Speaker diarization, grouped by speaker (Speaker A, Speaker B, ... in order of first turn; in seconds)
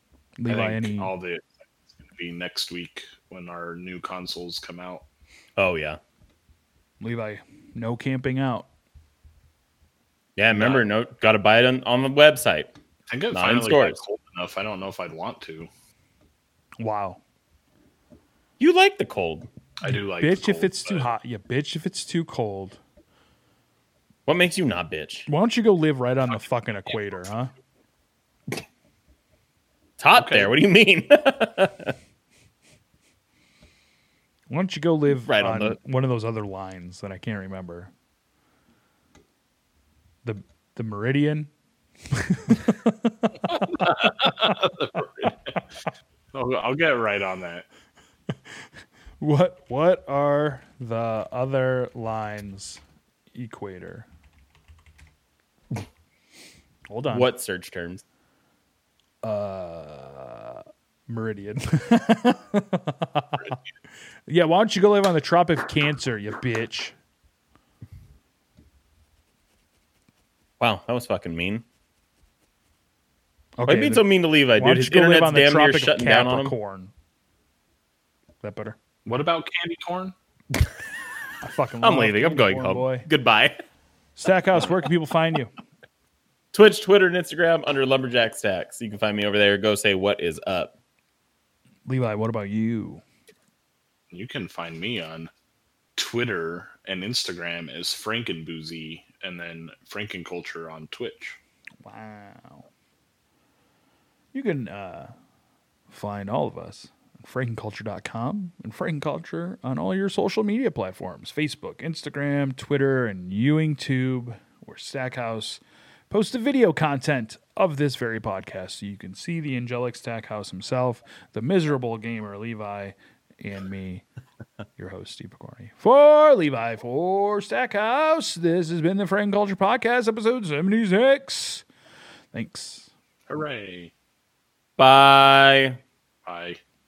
Speaker A: 0.4-1.1, 7.0-8.7, 16.8-17.2, 19.9-22.8, 25.3-27.5, 34.5-37.9, 40.2-41.5, 42.1-43.9, 49.2-52.8, 53.3-54.1, 56.9-57.3, 59.2-63.6, 64.3-66.9, 73.6-76.9, 78.4-78.8, 81.4-83.0, 84.2-85.5, 91.9-93.0, 101.8-102.7, 104.3-105.1, 105.9-124.0, 124.8-131.6, 132.3-132.9
Speaker B: 0.5-5.0, 10.6-10.8, 13.1-15.7, 19.8-21.1, 30.2-30.5, 43.7-45.6, 46.3-47.6, 79.0-80.1, 94.1-95.3, 96.0-101.4, 133.3-133.9, 136.2-136.6
Speaker C: 5.6-6.0, 10.3-12.7, 13.3-14.0, 18.6-19.5, 24.2-25.3, 30.0-31.9, 35.1-35.8, 57.1-58.0, 70.6-71.6, 73.7-76.5, 81.8-83.6, 86.5-90.7, 134.8-135.8